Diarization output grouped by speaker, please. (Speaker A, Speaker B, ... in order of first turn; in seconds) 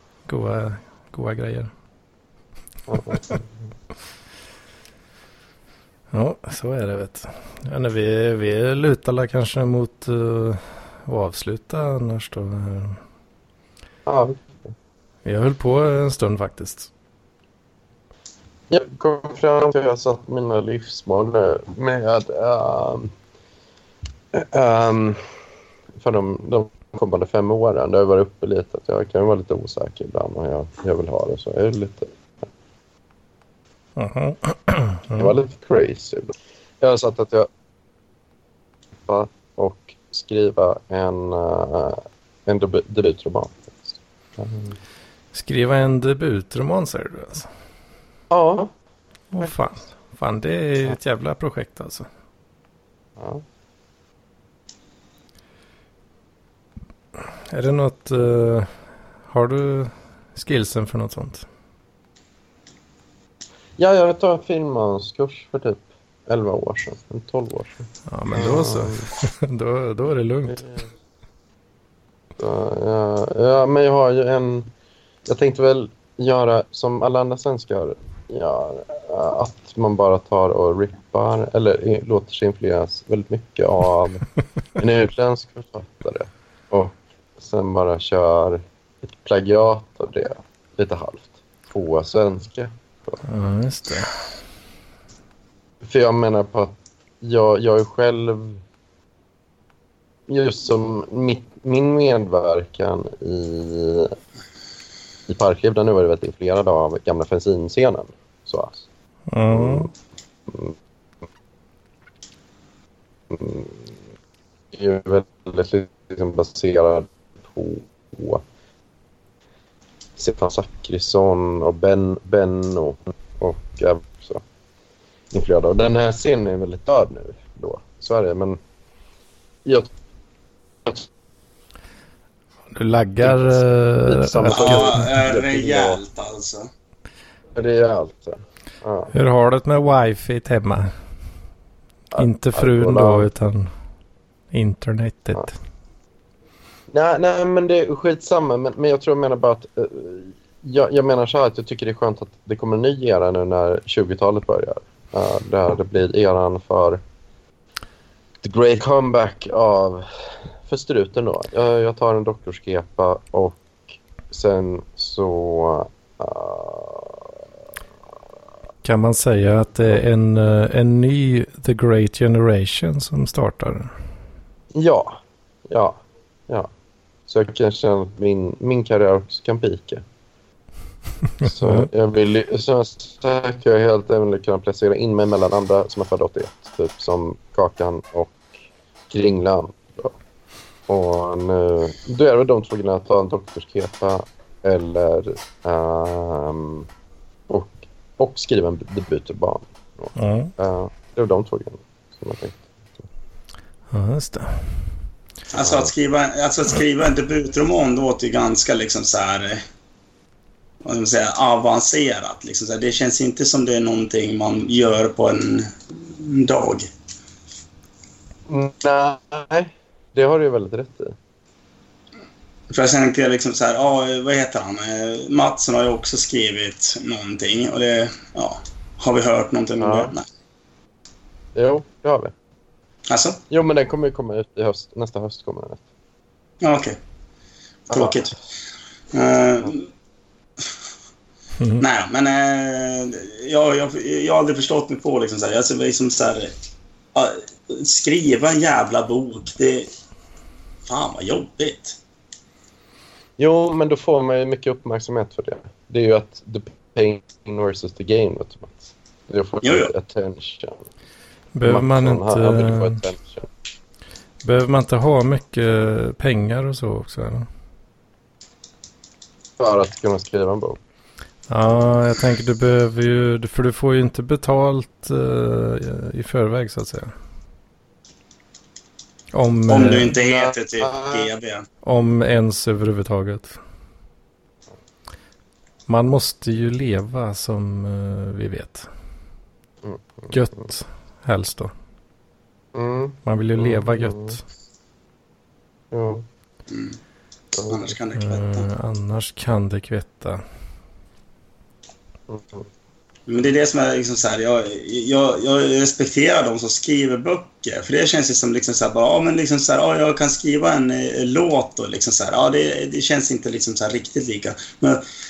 Speaker A: 0.2-1.7, 6.1-13.0, 15.2-16.9, 34.0-35.4, 45.3-47.5, 49.3-52.1, 57.2-58.7, 59.3-61.5, 68.1-70.6, 93.2-94.2, 109.3-109.9, 132.7-135.1, 139.1-140.9, 142.2-143.7, 144.5-145.5, 168.8-173.9, 181.4-181.9, 200.2-200.5, 203.9-204.8, 241.6-241.8, 261.5-263.0, 264.4-267.5, 271.5-277.1, 279.3-280.1, 281.8-283.6, 285.9-288.9, 290.3-291.7, 293.2-294.4, 298.1-300.4
Speaker B: 2.9-3.5, 14.1-14.7, 18.7-23.1, 24.3-25.2, 26.0-32.1, 35.2-37.5, 39.0-44.8, 48.3-48.7, 53.2-53.4, 63.8-69.1, 72.4-74.7, 75.2-93.2, 95.8-98.6, 100.3-104.1, 105.3-108.8, 109.5-109.9, 110.5-110.8, 113.3-113.8, 114.7-118.4, 120.2-124.4, 125.3-128.6, 129.6-129.9, 133.3-136.0, 137.5-139.1, 142.1-143.3, 146.9-157.0, 158.4-160.1, 160.6-167.3, 174.7-176.7, 177.3-180.0, 181.4-188.4, 189.1-190.2, 190.9-196.8, 197.5-203.1, 205.6-205.9, 218.5-221.2, 229.8-230.1, 231.5-232.3, 233.5-235.8, 237.9-238.2, 253.4-260.8, 261.6-263.4, 269.6-270.8, 280.1-281.3, 289.8-290.4, 292.7-294.4, 295.9-296.2, 297.6-297.8, 302.3-302.6
Speaker C: 134.5-136.7, 205.5-209.6, 210.8-216.9, 222.7-230.3, 233.1-233.4, 236.6-237.0, 237.9-238.3, 239.1-239.9, 241.8-246.5, 247.1-249.9, 250.8-252.0, 259.6-259.9, 279.7-281.6, 296.7-297.0, 297.7-298.7, 303.3-315.0